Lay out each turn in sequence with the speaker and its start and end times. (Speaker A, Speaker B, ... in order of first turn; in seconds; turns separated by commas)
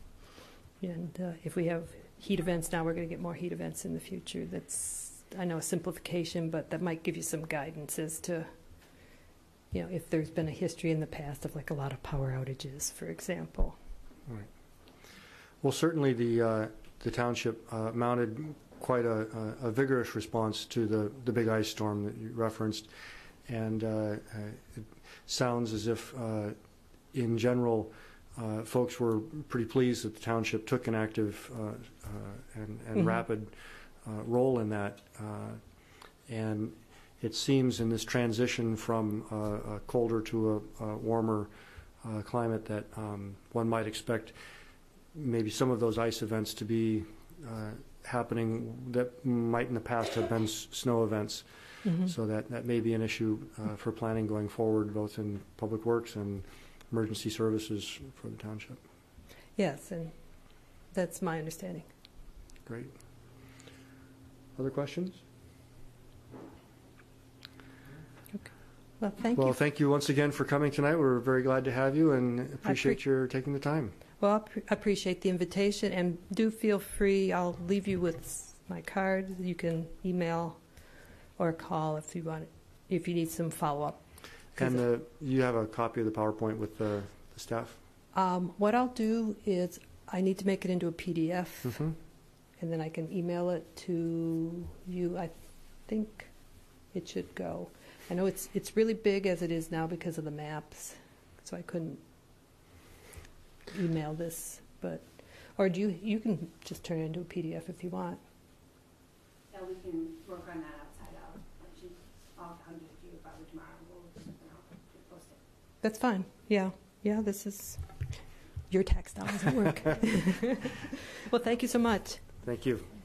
Speaker A: 0.8-8.5, Speaker A: 9.7-13.8, Speaker B: 15.6-22.9, Speaker B: 23.5-26.6, Speaker B: 27.1-35.6, Speaker A: 33.0-33.2, Speaker B: 36.3-41.5, Speaker B: 42.0-44.4, Speaker B: 45.1-51.5, Speaker A: 51.9-52.1, Speaker B: 52.0-58.8, Speaker A: 59.6-60.1, Speaker A: 60.9-61.9, Speaker B: 62.7-63.0, Speaker B: 64.6-65.2, Speaker A: 69.0-69.6, Speaker B: 69.3-74.0, Speaker A: 72.6-73.0, Speaker A: 74.2-80.6, Speaker A: 81.4-84.0, Speaker A: 84.5-84.8, Speaker B: 84.6-87.8, Speaker A: 88.1-91.8, Speaker B: 91.7-92.0, Speaker A: 92.6-95.3, Speaker A: 95.9-96.3, Speaker A: 96.9-102.0, Speaker A: 103.7-105.0, Speaker A: 105.6-108.2, Speaker C: 109.5-115.4, Speaker A: 115.8-117.8, Speaker A: 118.7-122.3, Speaker B: 122.4-122.9